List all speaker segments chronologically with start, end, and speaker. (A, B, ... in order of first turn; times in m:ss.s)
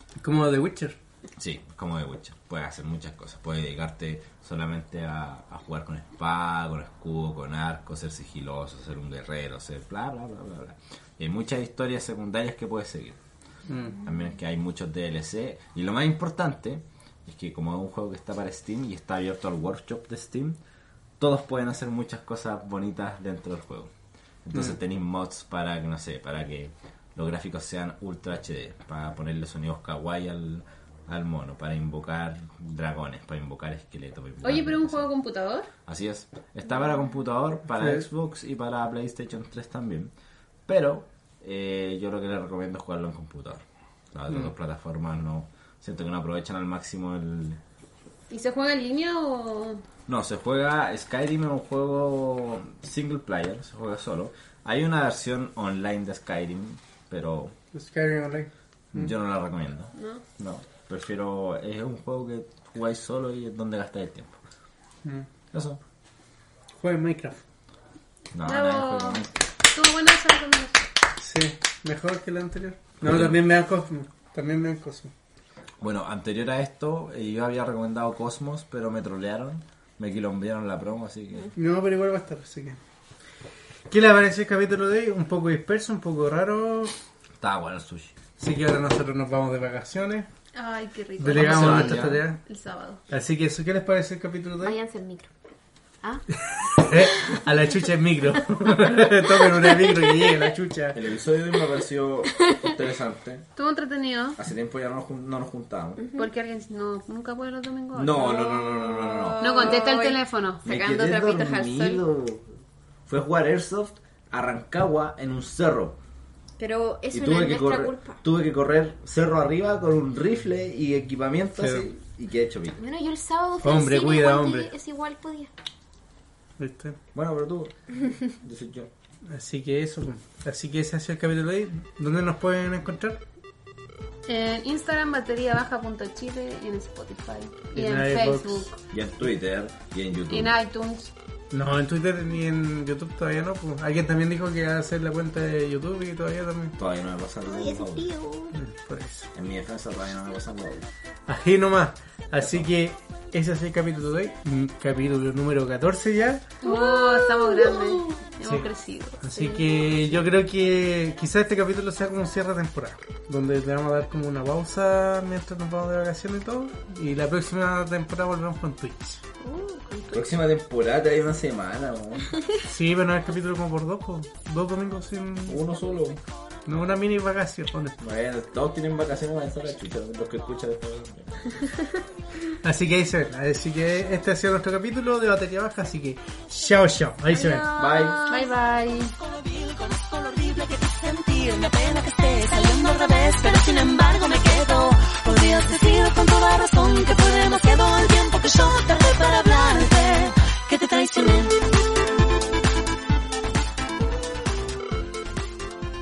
0:00.2-0:01.0 A
0:01.4-0:13.2 B
0:13.7-0:14.0 A
0:14.0-0:20.6 B
0:21.2-0:23.9 B
0:24.4-0:35.1 B
0:34.4-0:35.7 C
0:35.9-0:40.1 B
0:37.7-0:38.0 A
0:40.7-0:47.6 B
0:48.3-0:49.8 C
0:50.1-0:57.5 B
0:57.7-0:59.1 A
0:58.9-1:04.4 B
0:59.9-1:00.2 C
1:05.5-1:05.8 B
1:06.8-1:07.4 A
1:08.3-1:09.3 B
1:08.4-1:10.9 C
1:11.2-1:15.1 A
1:13.0-1:13.4 B
1:15.8-1:21.5 B
1:21.5-1:22.8 A
1:23.9-1:26.9 A
1:27.4-1:28.1 B
1:28.4-1:30.3 A
1:30.5-1:33.0 C
1:31.2-1:32.4 A
1:31.3-1:32.2 B
1:33.1-1:34.8 A
1:34.6-1:35.3 D
1:36.4-1:41.0 A
1:40.9-1:43.4 B
1:43.6-1:44.4 C
1:44.4-1:46.0 B
1:46.0-1:46.3 D
1:46.2-1:48.5 C
1:47.9-1:49.8 B
1:48.3-1:52.0 D
1:49.4-1:50.6 C
1:50.6-1:52.5 B
1:53.1-1:56.0 B
1:56.6-1:58.2 D
1:57.1-2:02.8 B
2:01.6-2:01.9 A
2:02.8-2:05.5 D
2:03.6-2:04.7 A
2:06.6-2:07.0 A
2:07.1-2:08.9 B
2:09.3-2:13.2 A
2:14.2-2:18.8 C
2:17.7-2:18.7 A
2:18.9-2:20.6 B
2:20.3-2:21.1 C
2:21.5-2:26.8 A
2:26.8-2:28.1 B
2:27.5-2:28.5 D
2:28.5-2:29.3 A
2:29.3-2:30.9 B
2:31.3-2:36.5 A
2:32.4-2:32.7 B
2:36.6-2:39.6 C
2:36.6-2:38.3 D
2:39.2-2:49.2 A
2:49.4-2:50.2 D
2:50.1-2:52.3 B
2:52.6-2:55.6 A
2:55.4-2:56.2 B
2:56.6-2:58.0 A
2:58.0-3:01.6 B
3:02.6-3:07.6 A
3:07.3-3:08.5 D
3:07.7-3:08.2 B
3:08.3-3:09.1 C
3:09.2-3:21.6 E